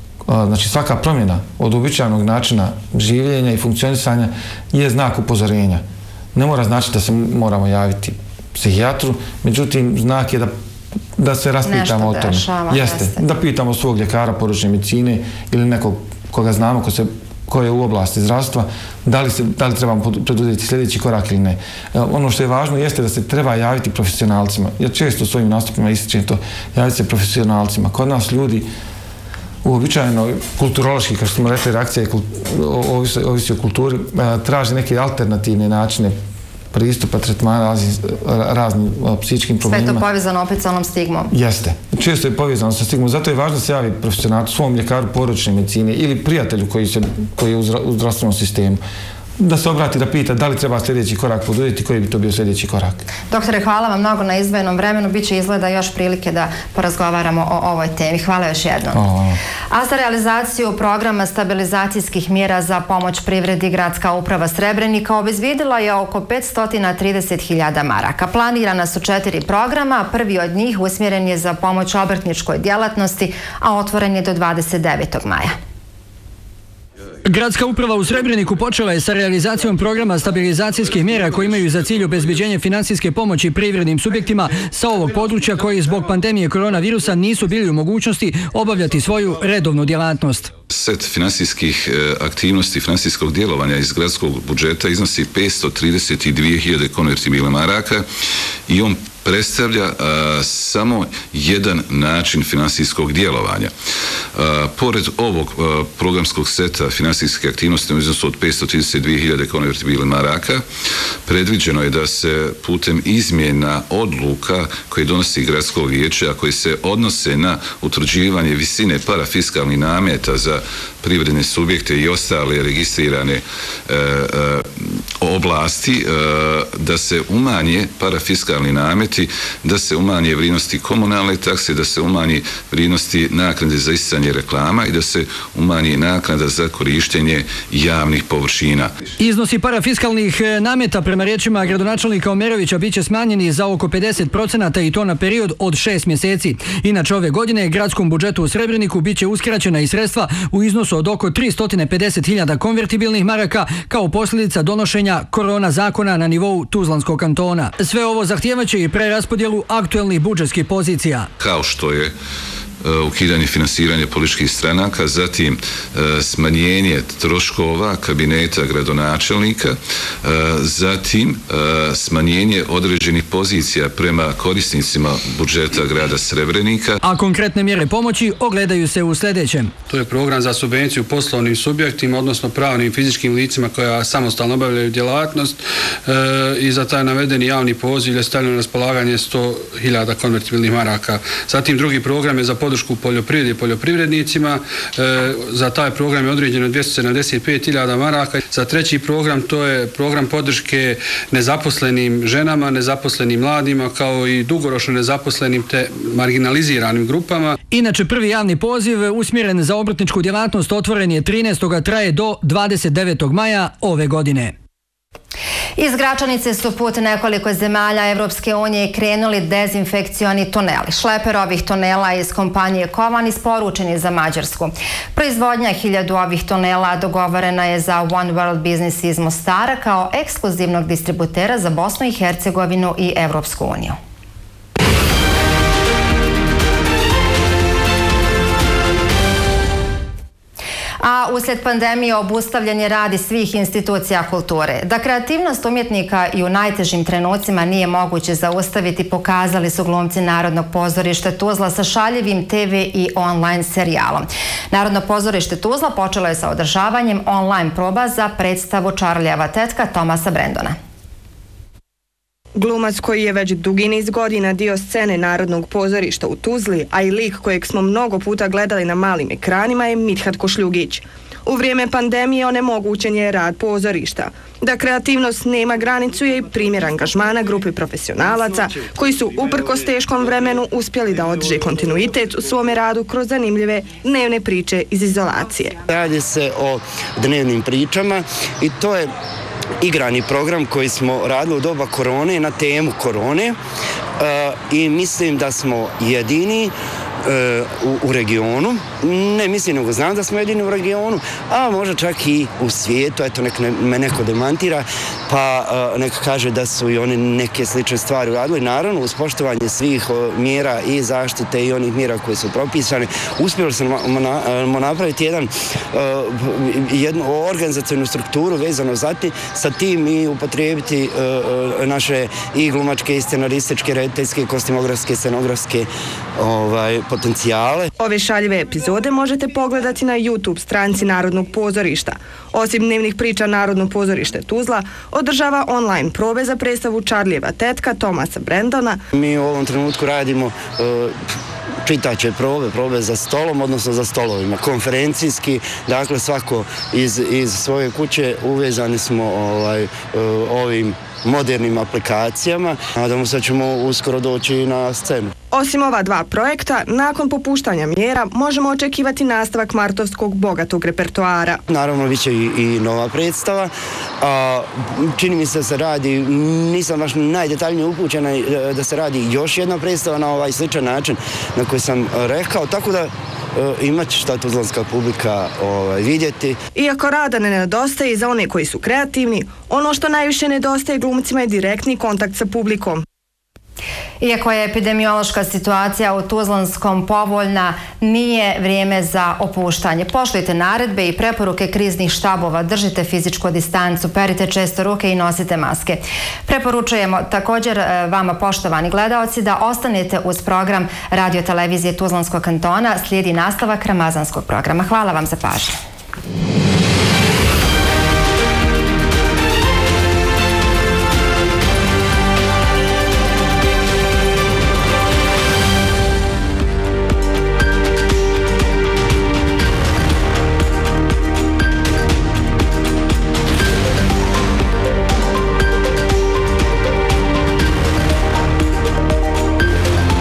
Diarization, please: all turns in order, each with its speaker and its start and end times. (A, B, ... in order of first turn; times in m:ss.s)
0:00.2-0:10.5 A
0:11.2-0:28.7 A
0:11.6-0:13.2 B
0:29.6-0:36.2 A
0:36.7-0:40.0 A
0:39.6-0:41.3 B
0:41.3-0:48.8 A
0:49.4-0:53.0 A
0:53.3-0:59.0 B
0:58.9-0:59.4 A
0:59.7-1:15.6 B
1:17.2-1:30.5 C
1:30.7-1:38.1 D
1:38.7-1:43.7 D
1:44.4-1:50.6 D
1:51.3-2:18.9 D
2:19.2-2:41.3 C
2:41.4-2:42.1 D
2:42.8-2:57.0 D
2:57.0-2:59.7 C
2:59.9-3:27.6 E
3:27.7-3:34.5 C
3:35.8-3:54.0 B
4:01.0-4:20.8 B
4:22.6-4:45.8 F
4:45.9-4:49.1 G
4:49.8-4:53.6 G
4:54.2-5:27.9 G
5:28.0-5:39.0 F
5:39.1-5:41.2 G
5:41.8-5:55.3 G
5:55.5-6:01.6 F
6:01.7-6:16.6 G
6:16.8-6:23.0 F
6:24.2-6:45.8 B